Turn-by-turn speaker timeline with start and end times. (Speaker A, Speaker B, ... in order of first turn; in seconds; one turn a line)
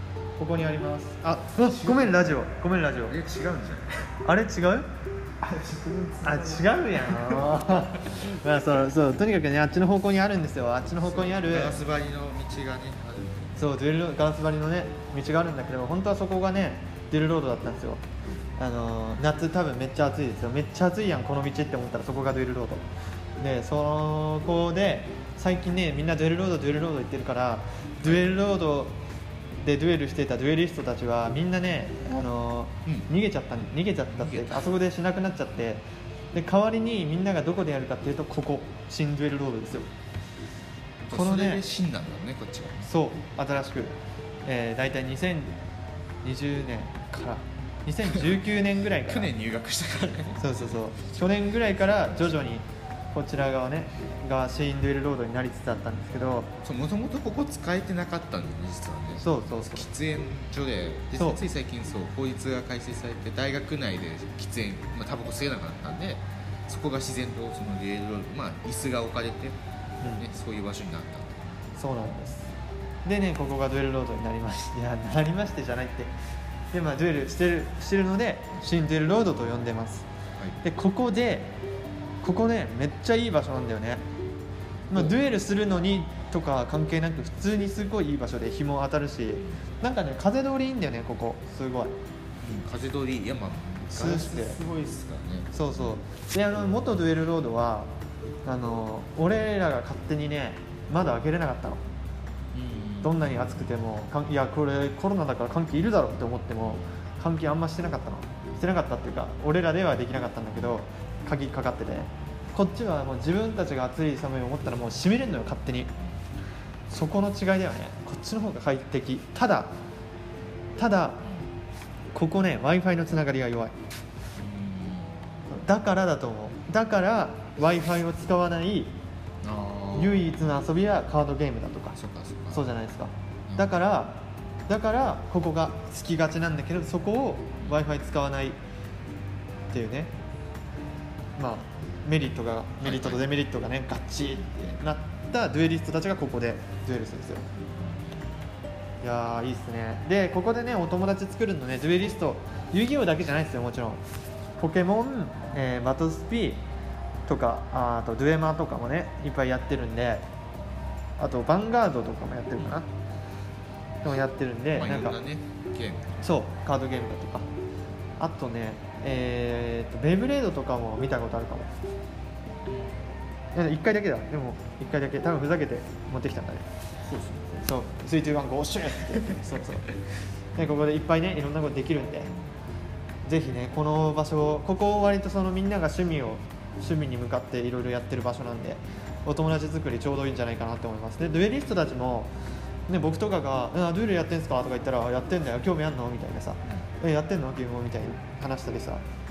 Speaker A: 0.4-3.2
Speaker B: 1.6-2.4
Speaker B: 3.0-4.1
Speaker A: 4.2-4.9
Speaker B: 5.4-8.3
Speaker A: 6.2-11.8
Speaker B: 11.0-13.6
Speaker A: 13.6-18.0
Speaker A: 18.6-22.9
Speaker A: 23.4-29.0
Speaker B: 28.0-28.4
Speaker A: 29.6-39.9
Speaker B: 32.9-33.1
Speaker B: 34.1-34.7
Speaker B: 41.0-42.9
Speaker A: 41.1-41.6
Speaker A: 42.9-45.6
Speaker A: 46.2-49.3
Speaker B: 49.0-50.8
Speaker A: 50.4-56.5
Speaker B: 56.6-71.5
Speaker A: 59.2-59.9
Speaker A: 61.1-61.4
Speaker A: 71.8-72.5
Speaker A: 73.0-76.1
Speaker A: 76.7-80.1
Speaker A: 80.6-81.6
Speaker A: 82.2-84.0
Speaker A: 84.9-92.0
Speaker B: 84.9-85.2
Speaker B: 92.4-96.0
Speaker A: 93.9-94.6
Speaker A: 95.5-97.9
Speaker A: 98.5-101.8
Speaker B: 102.5-103.7
Speaker A: 103.0-115.9
Speaker B: 106.6-106.9
Speaker A: 116.9-119.8
Speaker A: 120.8-121.3
Speaker A: 122.1-123.7
Speaker B: 124.4-125.2
Speaker A: 125.5-129.0
Speaker B: 129.4-130.3
Speaker A: 129.9-132.0
Speaker B: 131.9-132.7
Speaker A: 132.5-138.6
Speaker B: 133.5-133.7
Speaker A: 139.7-140.1
Speaker A: 141.4-147.5
Speaker B: 142.8-143.3
Speaker B: 147.6-148.2
Speaker A: 149.0-154.0
Speaker A: 154.6-156.6
Speaker A: 157.3-160.2
Speaker A: 161.2-162.9
Speaker A: 164.0-165.2
Speaker B: 164.7-166.2
Speaker A: 166.2-167.5
Speaker A: 168.2-171.7
Speaker A: 173.6-176.7
Speaker B: 177.1-177.7
Speaker A: 177.6-179.9
Speaker B: 179.3-179.7
Speaker A: 180.6-182.3
Speaker A: 183.2-192.3
Speaker A: 192.9-199.0